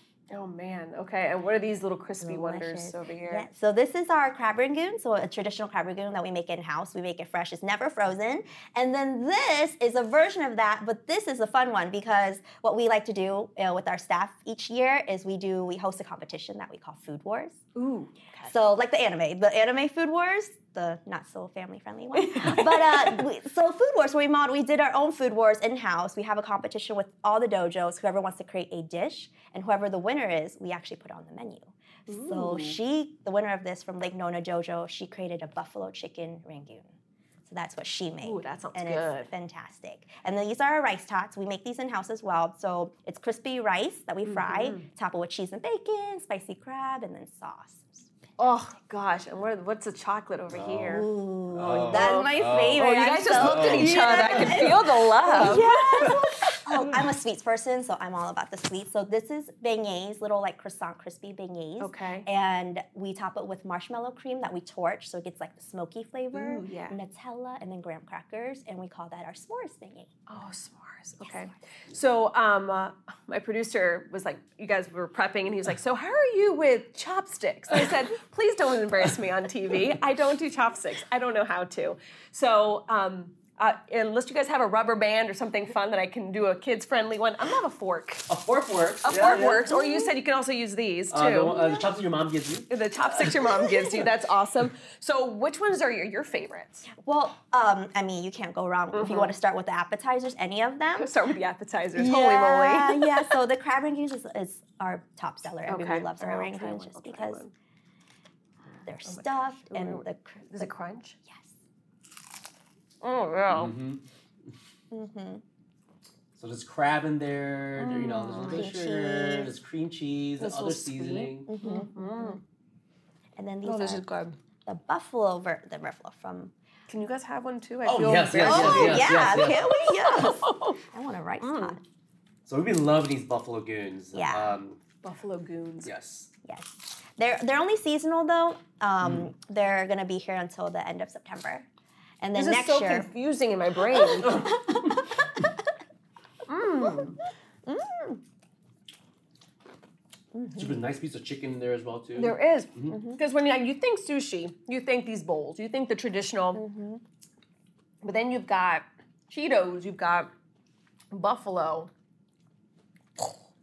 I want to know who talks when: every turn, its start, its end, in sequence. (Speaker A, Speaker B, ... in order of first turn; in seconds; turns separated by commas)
Speaker A: 0.3-3.5, Speaker B: 2.2-17.6, Speaker A: 17.7-18.5, Speaker B: 18.4-36.9, Speaker A: 22.1-23.2, Speaker A: 32.1-32.8, Speaker B: 37.5-48.1, Speaker A: 38.2-39.3, Speaker A: 44.2-44.9, Speaker A: 48.4-57.0, Speaker C: 50.5-51.0, Speaker B: 50.9-70.1, Speaker C: 51.5-56.2, Speaker A: 61.8-62.3, Speaker A: 66.3-67.0, Speaker A: 70.3-88.3, Speaker C: 88.3-89.7, Speaker A: 89.0-91.5, Speaker B: 89.5-90.1, Speaker C: 91.1-93.7, Speaker A: 92.7-96.9, Speaker B: 96.9-101.1, Speaker A: 98.9-99.3, Speaker A: 100.9-103.3, Speaker B: 101.9-107.4, Speaker A: 105.7-107.5, Speaker B: 108.8-110.7, Speaker A: 109.0-111.2, Speaker A: 113.0-113.7, Speaker C: 113.5-114.5, Speaker B: 114.9-115.4, Speaker C: 116.4-121.5, Speaker A: 117.8-118.6, Speaker B: 118.4-119.5, Speaker A: 120.4-122.4, Speaker B: 121.5-122.4, Speaker B: 123.3-124.0, Speaker A: 123.6-124.4, Speaker B: 124.7-126.5, Speaker A: 126.9-130.8, Speaker C: 127.8-129.8, Speaker B: 128.4-131.8, Speaker A: 131.4-131.8, Speaker C: 132.4-134.8, Speaker B: 134.1-134.5, Speaker A: 135.0-135.9, Speaker C: 135.8-136.3, Speaker B: 136.4-141.7, Speaker C: 139.0-139.3, Speaker B: 142.2-143.1, Speaker A: 142.3-144.5, Speaker B: 144.2-144.8, Speaker A: 146.5-147.2, Speaker B: 147.7-148.2, Speaker B: 150.3-150.8, Speaker C: 150.5-153.0, Speaker A: 152.1-156.6, Speaker B: 152.9-153.2, Speaker B: 156.5-157.0, Speaker A: 158.0-160.3, Speaker A: 161.1-161.9